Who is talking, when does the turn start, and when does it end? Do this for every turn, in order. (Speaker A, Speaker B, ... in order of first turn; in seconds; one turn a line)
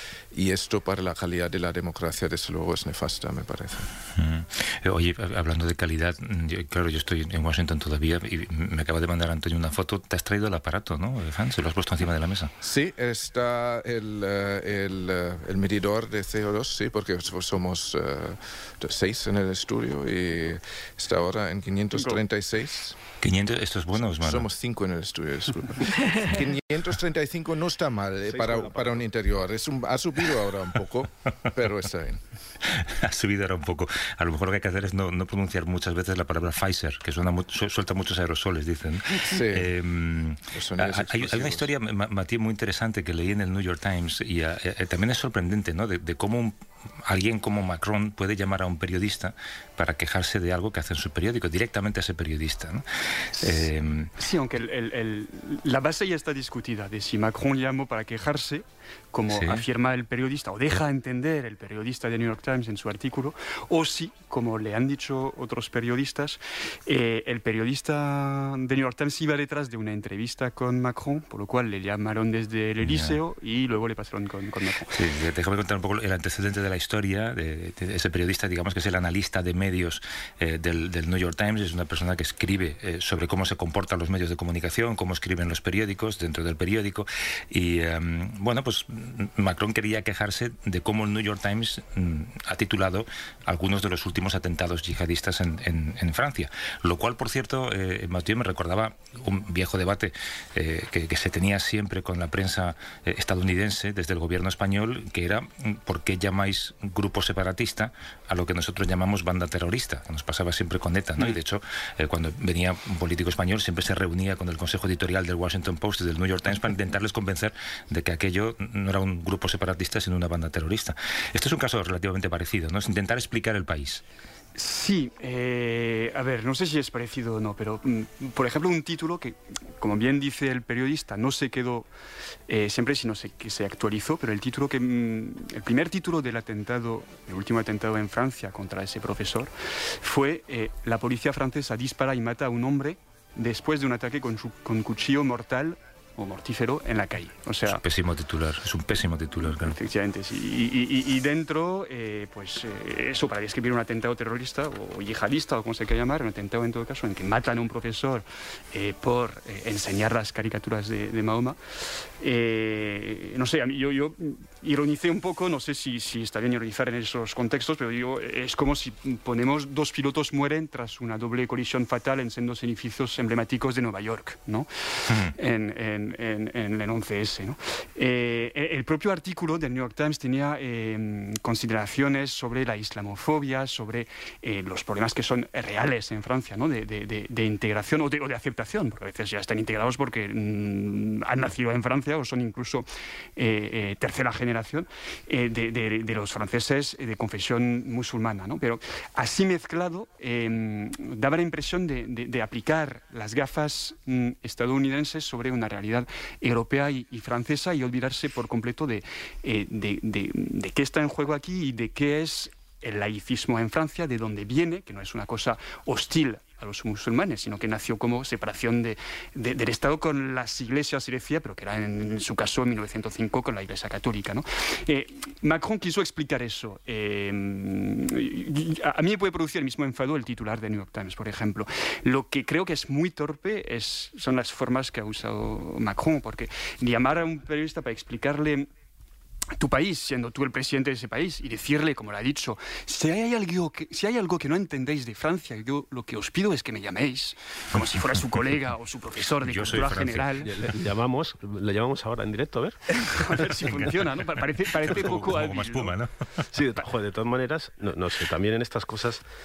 Speaker A: 0.3-3.9
Speaker B: 4.2-12.5
Speaker A: 12.6-23.0
Speaker C: 21.9-22.2
Speaker B: 23.2-24.5
Speaker A: 24.0-32.2
Speaker D: 28.3-29.1
Speaker B: 32.6-52.9
Speaker A: 39.1-39.7
Speaker A: 40.5-41.7
Speaker B: 53.4-54.1
Speaker C: 54.2-75.1
Speaker B: 59.3-59.6
Speaker B: 72.8-73.2
Speaker B: 74.9-124.0
Speaker C: 124.6-131.9
Speaker C: 132.5-147.8
Speaker B: 147.7-149.8
Speaker C: 149.4-161.6
Speaker C: 162.2-238.7
Speaker C: 239.6-250.5
Speaker B: 249.4-250.7
Speaker D: 250.4-253.7
Speaker C: 253.0-256.0
Speaker B: 253.6-256.4
Speaker D: 254.9-255.2
Speaker D: 256.5-259.2